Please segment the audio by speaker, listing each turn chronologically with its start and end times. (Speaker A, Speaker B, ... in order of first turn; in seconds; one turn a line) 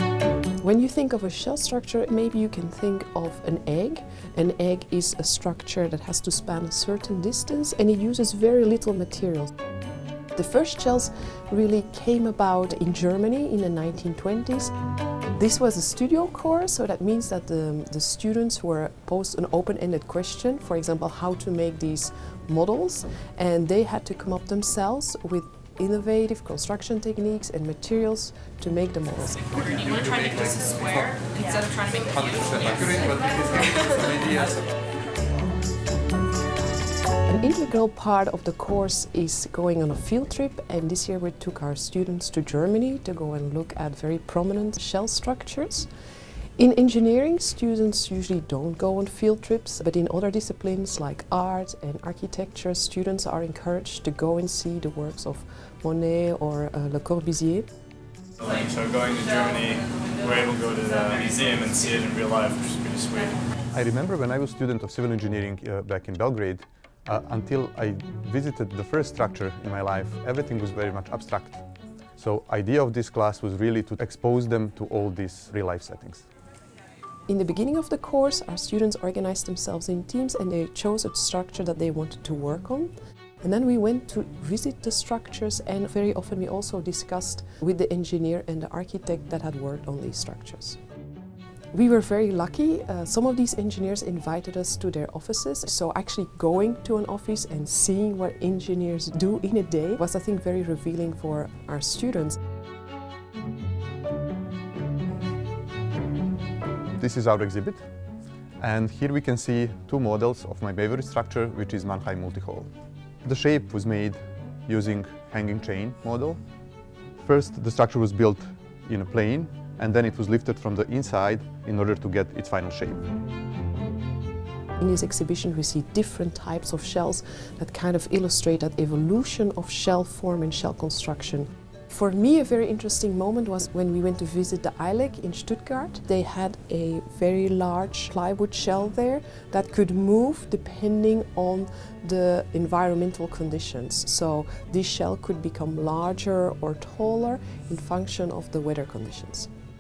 Speaker A: 0.6-9.5
Speaker A: 10.3-14.7
Speaker A: 15.3-29.5
Speaker B: 29.5-33.1
Speaker C: 29.9-30.9
Speaker C: 32.1-34.5
Speaker A: 37.3-45.9
Speaker A: 46.6-57.7
Speaker D: 58.4-63.4
Speaker C: 63.7-71.6
Speaker C: 72.2-76.2
Speaker A: 77.3-90.8
Speaker A: 91.7-102.4
Speaker C: 107.0-107.9
Speaker C: 108.6-112.7
Speaker C: 113.2-116.4
Speaker C: 117.2-123.1
Speaker A: 124.8-149.5